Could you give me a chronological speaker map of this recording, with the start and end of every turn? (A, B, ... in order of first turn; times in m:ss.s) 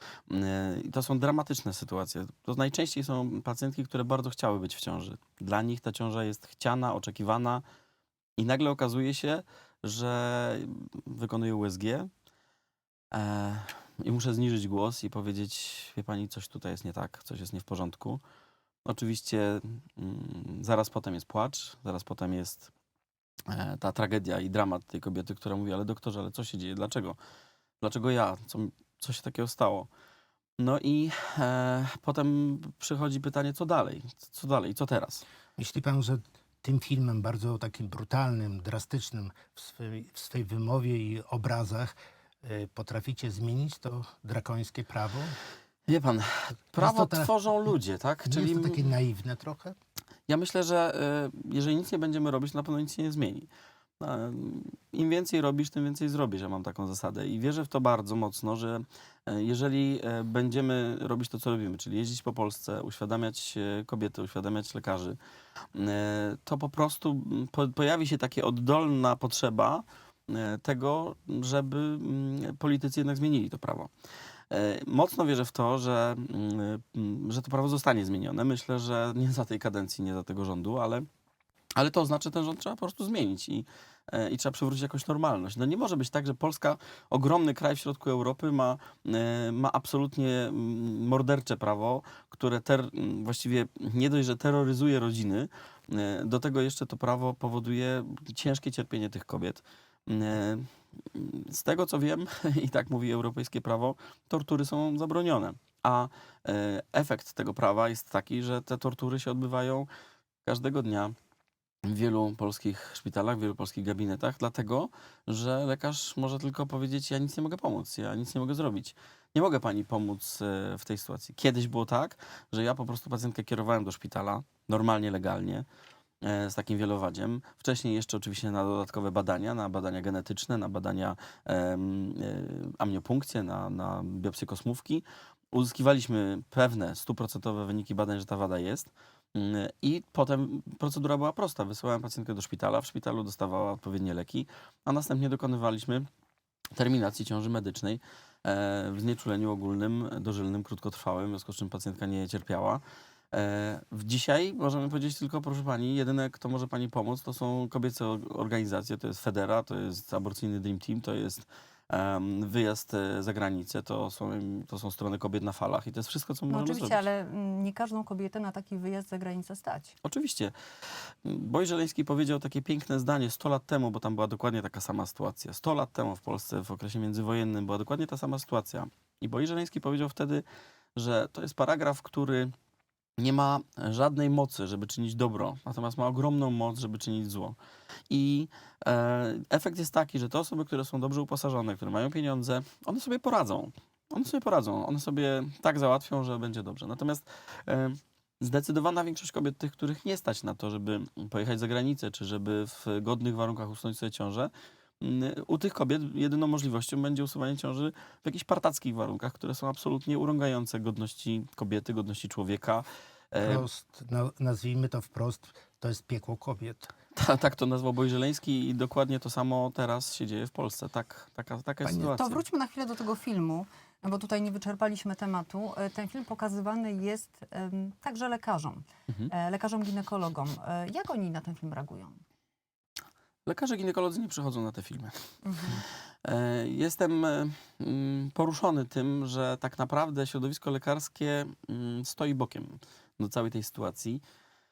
0:00.3-0:07.6 A
0:08.4-0:12.1 A
0:13.1-0:18.2 A
0:18.8-0:22.7 A
0:23.5-0:27.2 A
0:27.8-0:29.9 A
0:30.6-0:35.2 A
0:35.6-0:45.4 B
0:45.9-0:48.9 A
0:46.8-0:47.3 B
0:48.2-0:49.7 B
0:50.3-0:53.5 A
0:54.0-1:05.2 A
1:05.7-1:13.9 A
1:14.5-1:21.1 A
1:21.8-1:49.9 A
1:50.4-1:51.2 A
1:51.8-2:05.6 A
2:06.2-2:26.1 A
2:26.7-2:47.0 A
2:46.5-2:49.9 C
2:50.0-2:50.5 A
2:51.2-3:00.4 A
3:01.0-3:02.5 A
3:03.2-3:07.6 A
3:08.1-3:33.7 A
3:33.4-3:36.9 B
3:37.1-3:42.4 A
3:41.8-3:52.2 C
3:53.4-3:55.1 A
3:55.4-3:55.8 C
3:56.2-4:04.2 A